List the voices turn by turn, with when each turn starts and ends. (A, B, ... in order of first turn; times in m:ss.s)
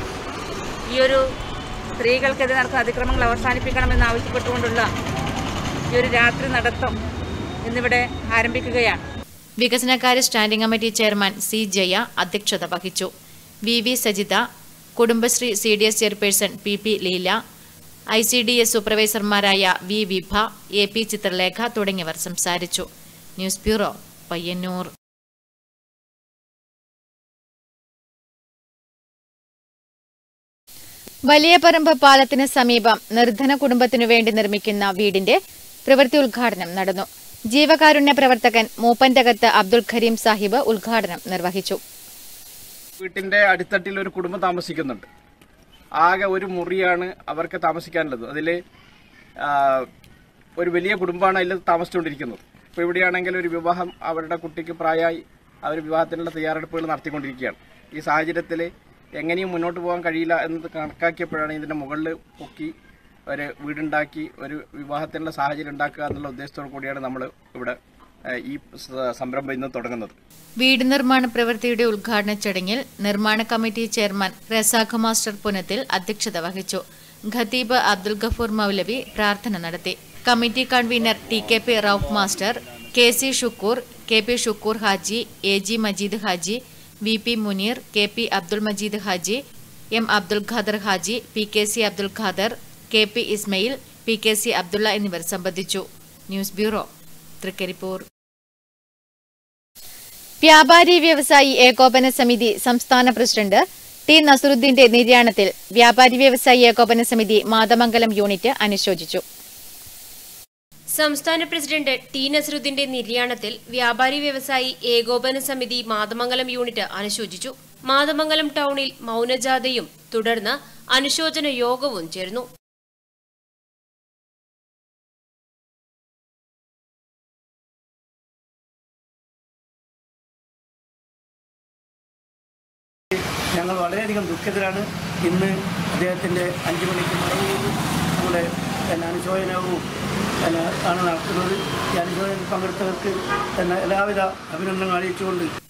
0:00.9-0:01.2 A
0:02.0-0:04.9 A
0:05.9-0:06.9 A
0:07.7-0:09.0 A
0:09.6-0:13.1 B
0:13.7-0:14.4 B
0:15.0-0:17.4 B
0:18.1-0:24.9 B
0:31.3-0:41.8 B
0:43.0-0:45.1 C
0:46.0-0:48.6 C
0:49.4-0:49.9 C
0:50.6-1:02.7 C
1:03.3-1:07.8 C
1:08.4-1:10.2 C
1:10.6-1:29.4 B
1:29.9-1:36.9 B
1:37.4-1:38.1 B
1:40.4-1:49.2 B
1:51.0-2:02.5 D
2:13.6-2:18.4 E
2:18.9-2:19.7 E
2:20.5-2:25.5 E